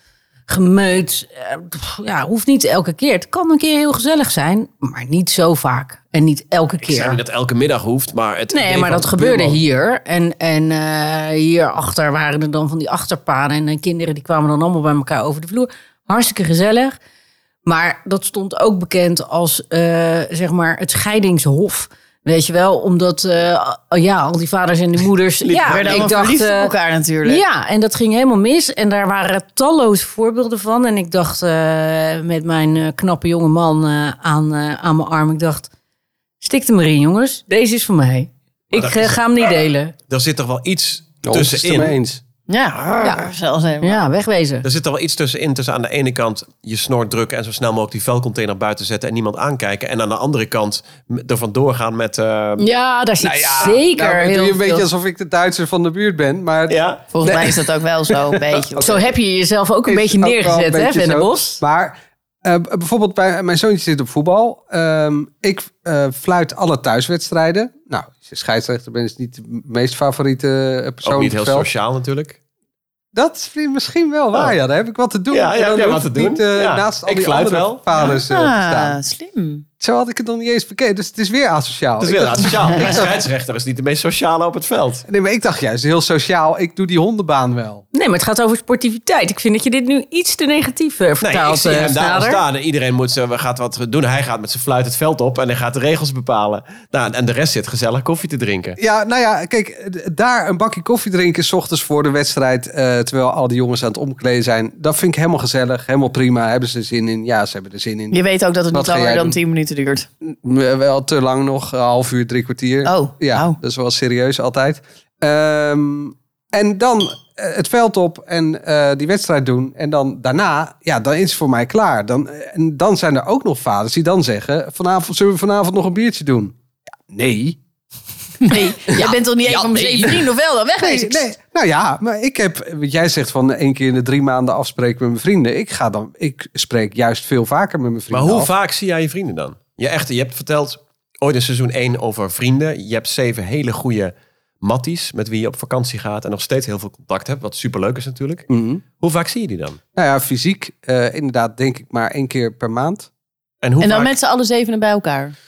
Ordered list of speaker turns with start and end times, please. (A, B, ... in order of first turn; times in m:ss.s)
0:00.5-0:07.2 A
0:06.8-0:09.6 B
0:08.5-0:17.0 A
0:17.7-0:26.7 A
0:25.4-0:26.1 B
0:25.7-0:27.4 C
0:27.2-0:35.7 A
0:36.4-0:40.0 A
0:38.7-0:39.2 B
0:40.1-0:42.0 B
0:41.2-0:42.2 D
0:42.5-0:44.0 C
0:43.0-0:43.3 A
0:43.8-0:44.7 A
0:44.6-0:52.7 B
0:52.6-0:54.9 A
0:53.2-0:59.0 D
0:56.7-0:57.4 B
0:57.1-0:59.0 C
0:58.8-1:01.6 A
0:59.9-1:11.7 D
1:11.0-1:12.4 B
1:13.1-1:19.0 D
1:15.3-1:17.9 B
1:17.9-1:19.6 C
1:19.8-1:23.1 D
1:22.0-1:25.0 B
1:25.1-1:27.8 D
1:27.9-1:32.4 A
1:31.2-1:38.8 B
1:38.8-1:48.2 D
1:48.1-1:50.1 C
1:48.7-1:49.4 D
1:50.2-2:06.5 D
1:52.8-1:53.6 C
2:07.1-2:07.6 D
2:08.4-2:11.2 C
2:08.5-2:10.3 D
2:10.8-2:18.5 D
2:18.1-2:28.5 B
2:28.5-2:28.8 D
2:29.0-2:29.8 B
2:30.0-2:33.1 D
2:33.6-2:34.2 B
2:33.8-2:35.4 C